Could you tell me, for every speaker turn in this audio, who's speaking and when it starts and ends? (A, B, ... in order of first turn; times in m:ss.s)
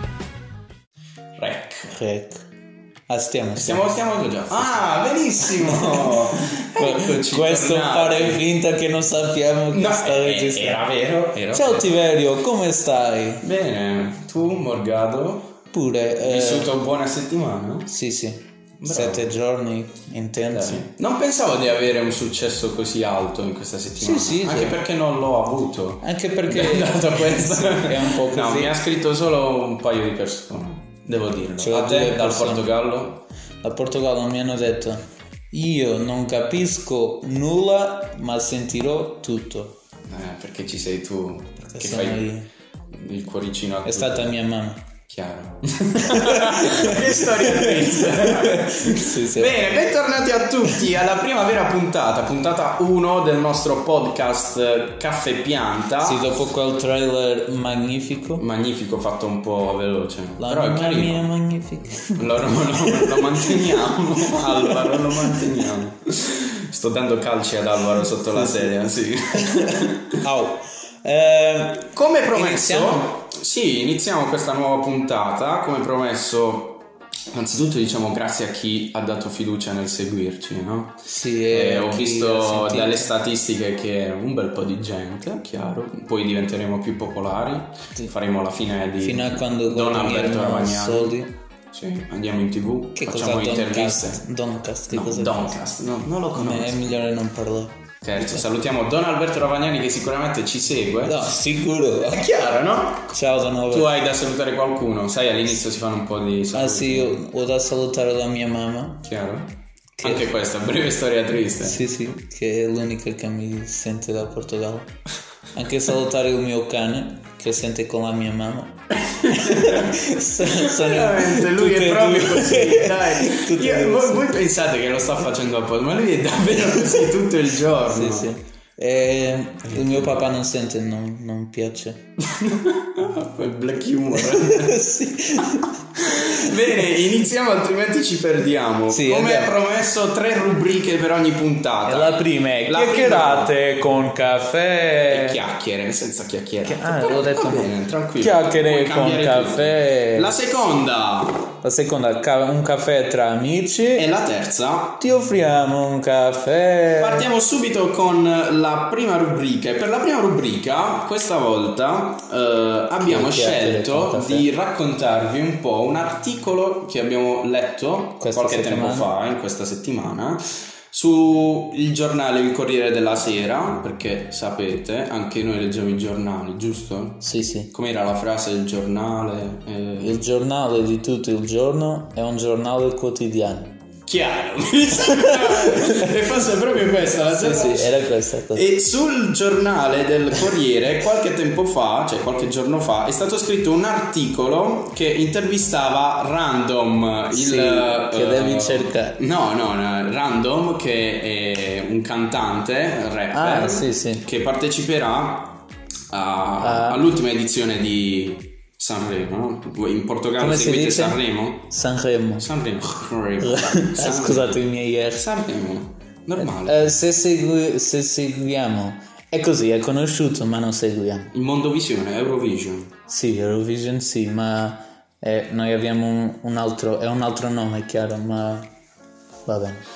0:01.4-0:01.9 A
0:01.9-0:02.4 B
0:03.1-0:03.8 B
0:03.6-0:08.4 A
0:05.4-0:10.9 B
0:09.7-0:11.9 A
0:11.5-0:13.4 B
0:13.4-0:15.5 A
0:15.7-0:16.7 B
0:16.2-0:17.9 A
0:17.9-0:20.9 B
0:18.8-0:19.3 A
0:20.4-0:33.2 A
0:24.0-0:24.8 B
0:26.0-0:28.8 B
0:31.6-0:32.7 B
0:33.6-0:39.8 B
0:40.1-0:42.3 A
0:41.7-0:42.5 B
0:42.9-0:44.4 A
0:43.9-0:44.8 B
0:45.1-0:56.2 A
0:46.0-0:49.7 B
0:56.0-0:58.4 B
0:58.4-1:01.3 A
1:00.4-1:05.5 B
1:02.2-1:10.2 A
1:08.4-1:08.7 B
1:09.4-1:13.1 B
1:11.9-1:31.2 A
1:21.1-1:23.1 B
1:29.0-1:31.3 B
1:31.7-1:34.2 A
1:33.0-1:35.6 B
1:34.9-1:36.9 A
1:36.4-1:38.4 B
1:38.0-1:41.3 A
1:41.1-1:42.2 B
1:42.1-1:43.2 A
1:43.1-1:43.9 B
1:43.7-1:47.2 A
1:46.5-1:49.0 B
1:49.0-1:51.8 A
1:51.6-1:54.9 B
1:55.6-2:04.3 B
1:59.1-2:08.3 A
2:07.9-2:12.0 B
2:09.7-2:10.3 A
2:12.2-2:23.5 A
2:14.2-2:16.5 B
2:18.9-2:19.6 B
2:21.9-2:25.4 B
2:25.1-2:31.5 A
2:26.6-2:30.3 B
2:31.6-2:34.0 B
2:34.0-2:35.0 A
2:35.0-2:37.3 B
2:37.0-3:00.2 A
2:43.0-2:44.5 B
2:48.2-2:49.1 B
2:57.2-2:57.7 B
3:00.0-3:03.8 B
3:04.1-3:08.0 A
3:05.1-3:06.1 B
3:07.4-3:08.6 B
3:08.5-3:25.6 A
3:17.3-3:19.2 B
3:23.3-3:24.2 B
3:26.1-3:31.7 A
3:26.6-3:27.0 B
3:30.4-3:32.5 B
3:32.4-3:34.6 A
3:33.4-3:35.2 B
3:35.2-3:36.8 A
3:36.4-3:41.3 B
3:41.3-3:42.9 A
3:43.1-3:48.7 B
3:49.5-3:49.8 B